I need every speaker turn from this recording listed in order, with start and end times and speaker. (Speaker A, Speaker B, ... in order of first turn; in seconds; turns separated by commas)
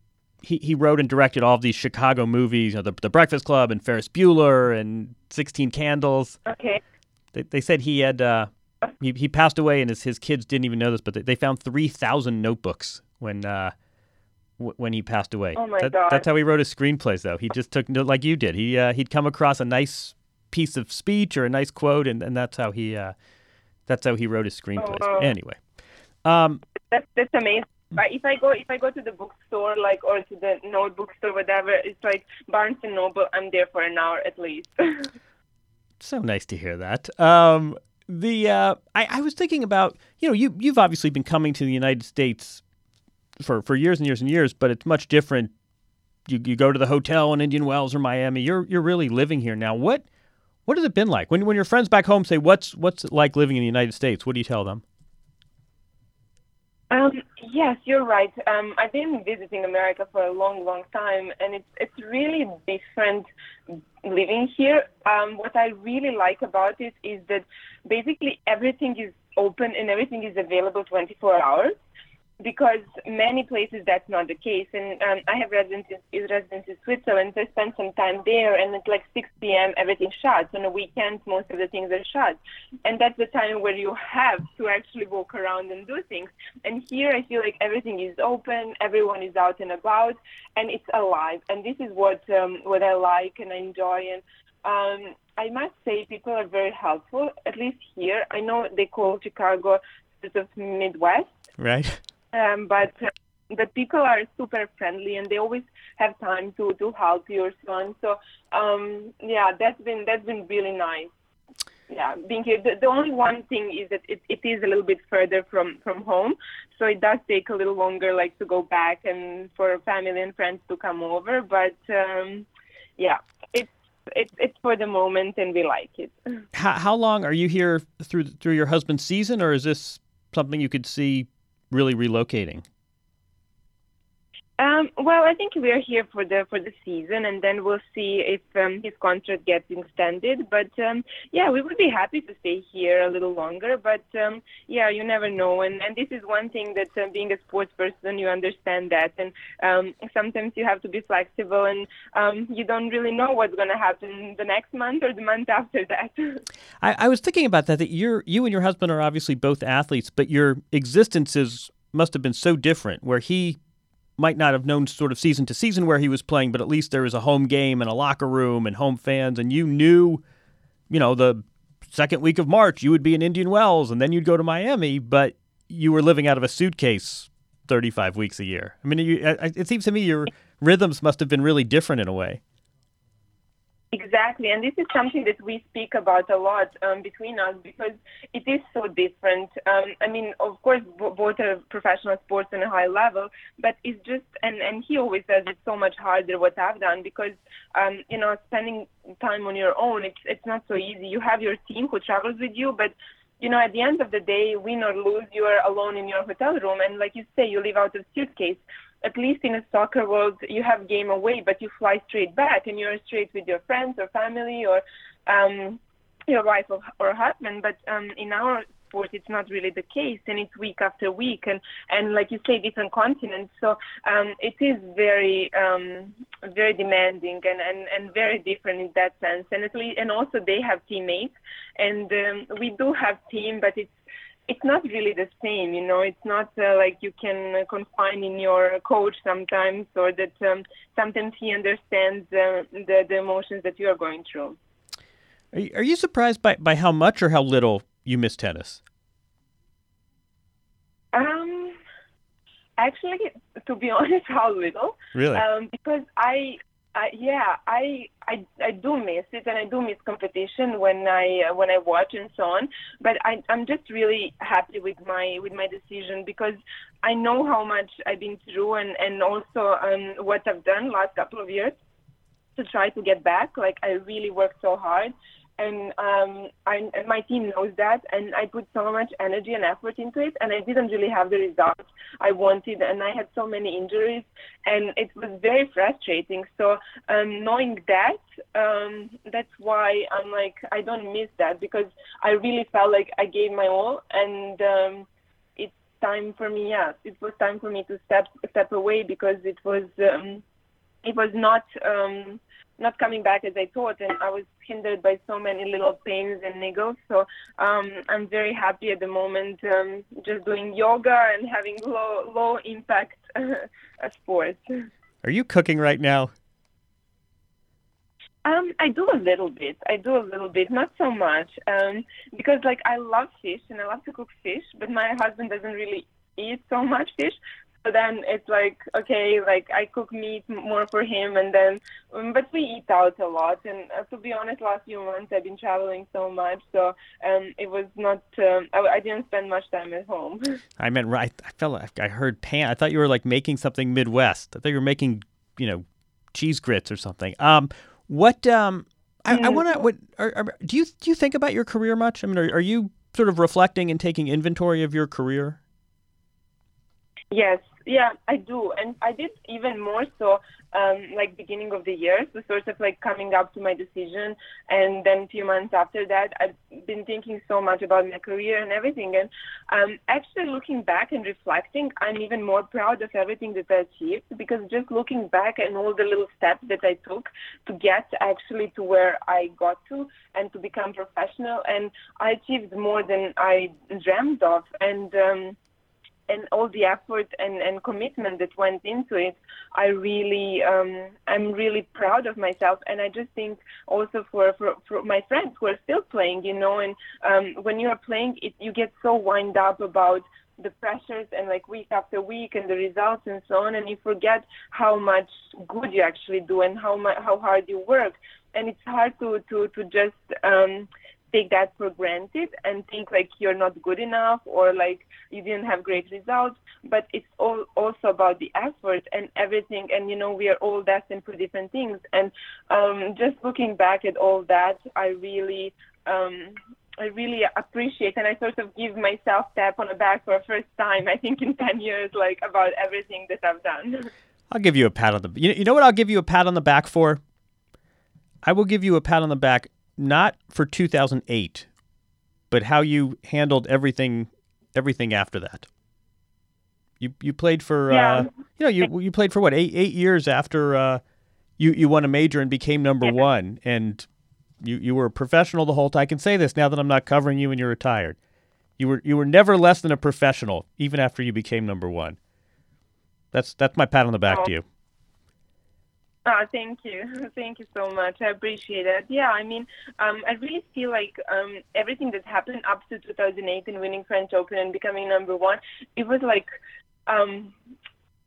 Speaker A: 0.4-6.4, Speaker B: 6.5-6.8, Speaker A: 7.3-13.7, Speaker A: 14.6-23.1, Speaker B: 15.6-16.2, Speaker A: 23.9-25.6, Speaker B: 24.8-25.3, Speaker A: 26.2-26.6, Speaker B: 26.9-35.1, Speaker A: 36.0-42.6, Speaker A: 43.4-45.5, Speaker A: 46.3-50.0, Speaker A: 50.7-54.8, Speaker B: 56.9-63.3, Speaker B: 64.0-71.7, Speaker B: 72.4-101.3, Speaker A: 101.6-102.0, Speaker B: 102.3-111.1, Speaker B: 111.9-122.5, Speaker B: 123.0-126.2, Speaker A: 126.5-132.7, Speaker B: 134.6-156.4, Speaker A: 156.8-163.6, Speaker A: 164.2-170.2, Speaker A: 170.9-182.4, Speaker B: 183.9-233.9, Speaker B: 234.5-244.6, Speaker A: 245.5-248.8, Speaker B: 251.1-251.8, Speaker B: 252.8-271.8, Speaker A: 255.2-255.4, Speaker B: 272.6-300.4, Speaker B: 301.0-314.6, Speaker A: 315.2-316.3, Speaker B: 318.4-340.6, Speaker A: 340.8-355.6, Speaker B: 349.3-349.7, Speaker B: 357.3-385.6, Speaker B: 386.3-434.1, Speaker A: 434.5-437.2, Speaker A: 438.4-441.7, Speaker A: 442.5-445.7, Speaker A: 447.0-451.0, Speaker B: 447.9-448.3, Speaker A: 451.6-454.1, Speaker A: 454.6-458.2, Speaker A: 458.8-462.2, Speaker A: 463.3-464.6, Speaker B: 466.3-476.5, Speaker B: 477.1-477.5